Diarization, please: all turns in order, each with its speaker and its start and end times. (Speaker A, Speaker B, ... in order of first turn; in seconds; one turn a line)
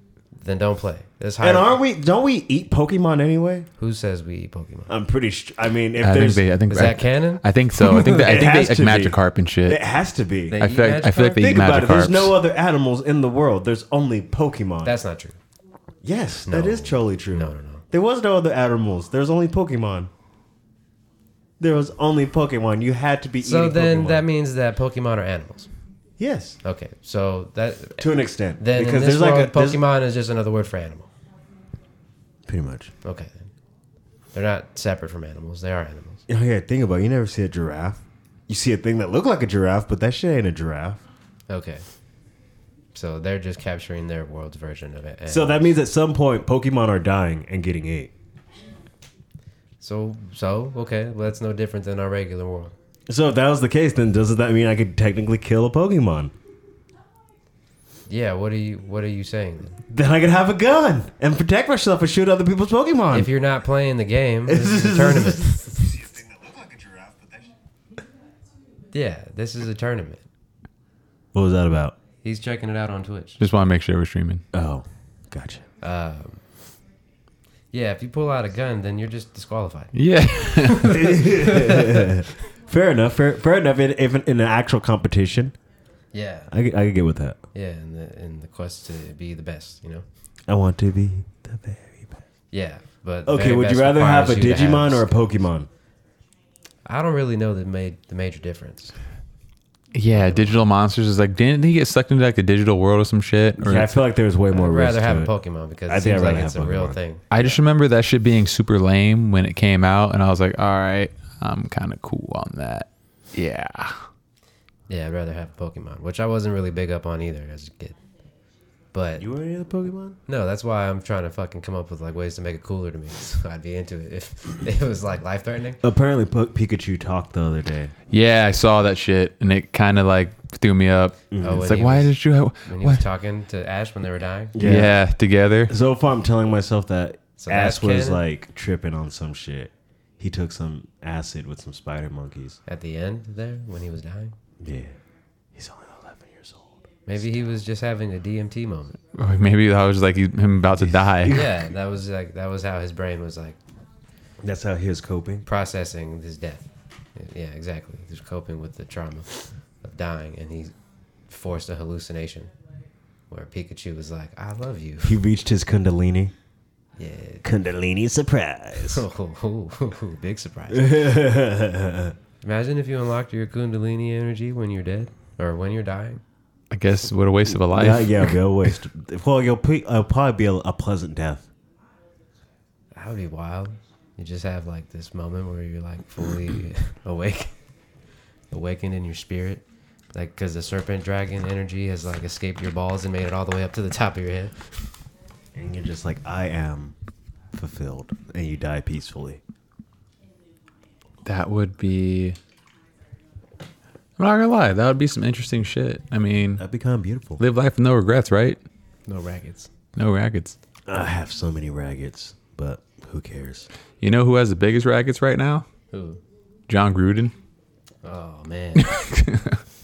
Speaker A: 0.4-1.8
Speaker B: 1.4-3.7
Speaker A: 3.8-4.9
Speaker B: 4.9-6.5
Speaker C: 6.0-9.8
Speaker A: 6.7-8.2
Speaker B: 8.2-10.6
Speaker A: 10.5-11.3
Speaker C: 10.6-12.3
Speaker B: 11.2-15.0
Speaker A: 14.8-15.4
Speaker B: 16.0-20.1
Speaker A: 16.5-17.9
Speaker B: 21.6-24.2
Speaker A: 23.4-25.7
Speaker B: 26.2-26.6
Speaker A: 26.6-31.1
Speaker B: 28.0-29.8
Speaker B: 32.5-32.9
Speaker A: 33.0-33.5
Speaker A: 34.3-36.3
Speaker B: 36.3-41.0
Speaker A: 41.5-41.9
Speaker A: 42.9-45.7
Speaker B: 45.3-48.1
Speaker A: 49.8-52.8
Speaker B: 53.1-56.3
Speaker A: 58.1-59.8
Speaker B: 59.9-63.3
Speaker A: 63.1-65.9
Speaker B: 64.5-67.5
Speaker A: 68.9-70.2
Speaker B: 71.3-72.0
Speaker A: 72.2-73.4
Speaker C: 73.4-74.4
Speaker B: 74.5-75.6
Speaker A: 75.8-76.4
Speaker A: 77.7-79.9
Speaker C: 79.9-81.0
Speaker A: 80.5-82.1
Speaker B: 80.9-85.5
Speaker A: 86.1-86.5
Speaker B: 86.5-87.4
Speaker A: 87.5-90.0
Speaker B: 90.5-92.2
Speaker A: 92.5-95.2
Speaker B: 93.3-95.7
Speaker A: 96.9-98.9
Speaker C: 99.9-104.0
Speaker A: 100.2-100.6
Speaker B: 103.6-105.3
Speaker A: 104.5-107.5
Speaker B: 105.9-107.0
Speaker C: 107.3-114.0
Speaker A: 114.9-118.0
Speaker A: 118.9-119.2
Speaker B: 119.2-120.2
Speaker A: 120.3-125.8
Speaker B: 125.8-127.9
Speaker C: 128.1-133.0
Speaker B: 131.3-131.7
Speaker A: 131.4-132.1
Speaker A: 132.7-134.6
Speaker B: 134.5-135.0
Speaker C: 134.6-135.7
Speaker B: 135.7-142.6
Speaker A: 137.4-138.2
Speaker A: 142.7-144.4
Speaker B: 144.6-144.9
Speaker B: 145.6-146.8
Speaker A: 147.1-149.0
Speaker C: 149.2-151.4
Speaker B: 150.8-151.6
Speaker A: 151.3-153.6
Speaker B: 154.4-155.4
Speaker A: 155.4-159.3
Speaker A: 159.8-160.7
Speaker A: 161.3-162.5
Speaker A: 163.3-165.2
Speaker B: 165.0-166.3
Speaker A: 167.0-167.4
Speaker B: 167.4-169.0
Speaker A: 168.8-171.2
Speaker B: 170.7-172.2
Speaker A: 172.4-176.2
Speaker C: 176.7-178.4
Speaker B: 177.7-181.5
Speaker A: 182.9-187.5
Speaker A: 188.5-194.6
Speaker B: 195.6-196.9
Speaker B: 197.5-199.4
Speaker C: 201.2-202.4
Speaker C: 204.2-206.6
Speaker B: 206.6-207.4
Speaker C: 207.4-208.6
Speaker A: 209.1-209.7
Speaker C: 210.0-210.6
Speaker B: 210.9-213.7
Speaker C: 214.0-215.7
Speaker A: 215.9-216.2
Speaker C: 216.7-217.3
Speaker A: 218.0-218.9
Speaker C: 218.8-219.6